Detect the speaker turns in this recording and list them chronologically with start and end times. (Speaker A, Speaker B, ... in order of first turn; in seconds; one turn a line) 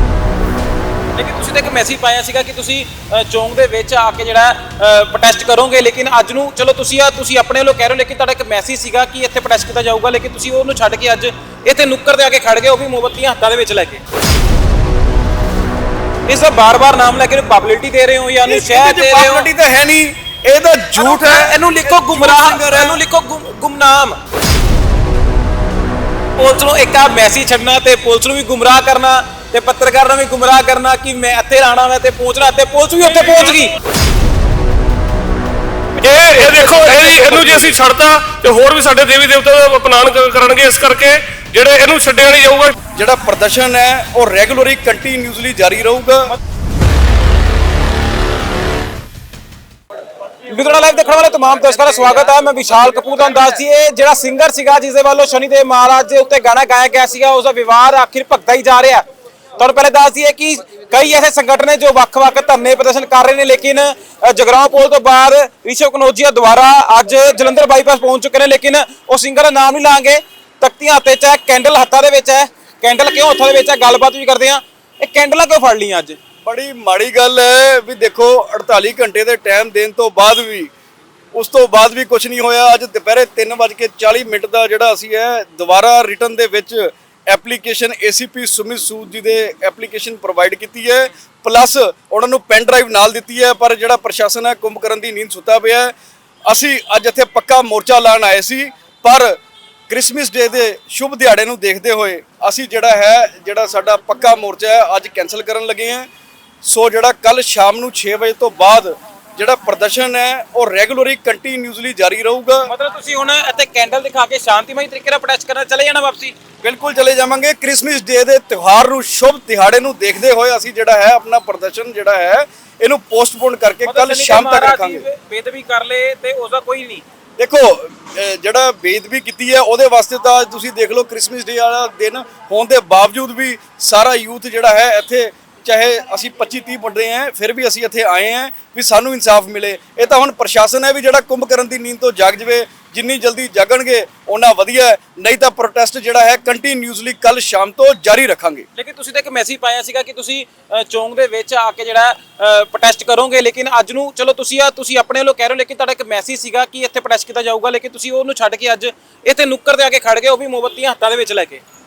Speaker A: 1.2-14.0
Speaker A: 16.3-19.5
Speaker B: 18.4-23.0
Speaker A: 20.9-24.2
Speaker A: 26.4-33.7
Speaker C: 36.0-42.8
Speaker A: 36.3-37.5
Speaker B: 37.3-37.7
Speaker B: 42.9-46.4
Speaker A: 50.5-59.0
Speaker A: 59.6-76.2
Speaker B: 76.4-80.7
Speaker B: 81.3-95.9
Speaker B: 96.5-99.3
Speaker B: 99.9-106.1
Speaker B: 106.6-112.7
Speaker A: 112.7-116.3
Speaker B: 116.6-125.0
Speaker A: 123.8-127.0
Speaker B: 127.4-148.7
Speaker A: 148.7-161.6